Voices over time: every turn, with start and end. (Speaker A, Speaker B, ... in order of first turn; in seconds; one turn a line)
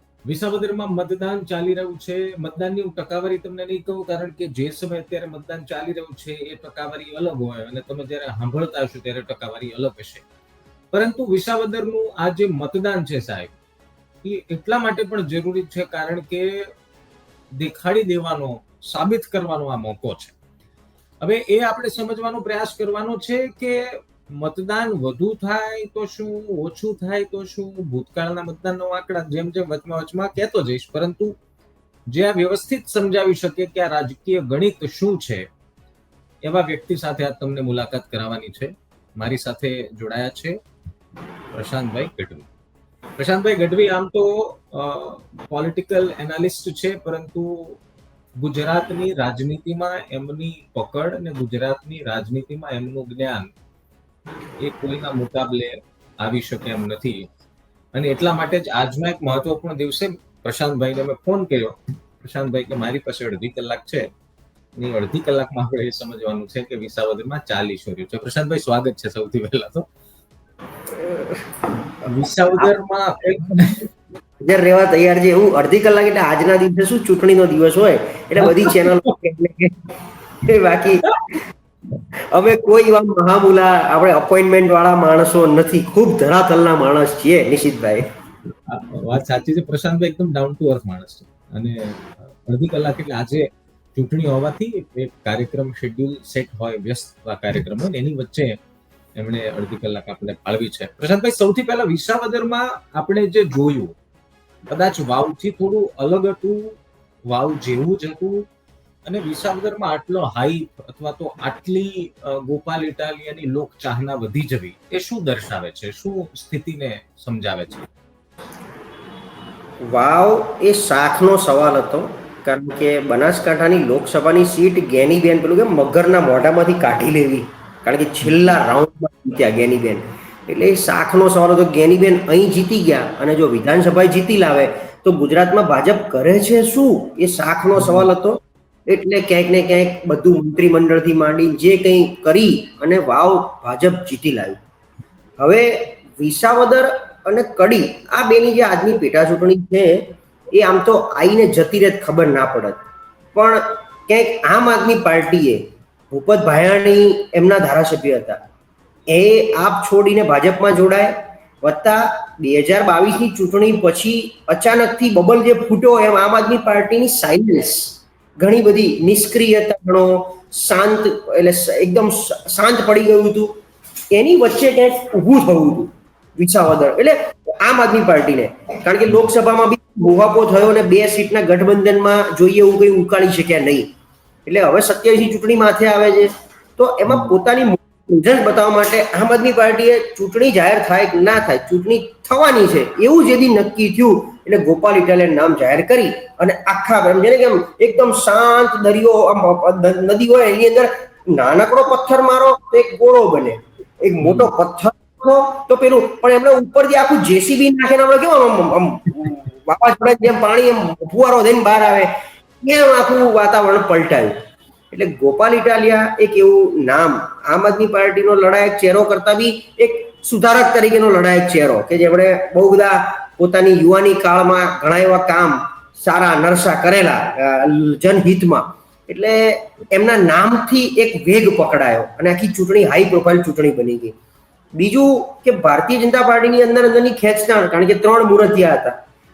Speaker A: 0.2-10.3
Speaker A: 10.9-13.6
Speaker A: 14.2-16.7
Speaker A: 17.6-20.4
Speaker A: 21.2-31.4
Speaker A: 32.1-35.5
Speaker A: 36.4-40.6
Speaker A: 41.5-42.5
Speaker A: 43.2-47.8
Speaker A: 48.4-53.5
Speaker A: 54.6-57.3
Speaker A: 57.9-64.1
Speaker A: 64.8-69.9
Speaker B: 71.0-71.4
Speaker A: 72.0-73.9
Speaker B: 73.4-73.8
Speaker B: 74.5-81.2
Speaker A: 78.4-79.1
Speaker B: 82.3-88.0
Speaker A: 88.7-98.6
Speaker A: 99.2-104.0
Speaker A: 104.7-108.5
Speaker A: 109.0-117.9
Speaker B: 119.9-144.6
Speaker A: 128.2-128.6
Speaker A: 137.8-138.1
Speaker B: 145.4-152.8
Speaker B: 153.3-158.4
Speaker B: 159.1-173.6
Speaker B: 174.1-183.9
Speaker B: 184.5-212.1
Speaker A: 187.1-187.4
Speaker A: 204.2-204.5
Speaker B: 212.6-214.3
Speaker B: 214.9-234.1
Speaker B: 234.8-239.0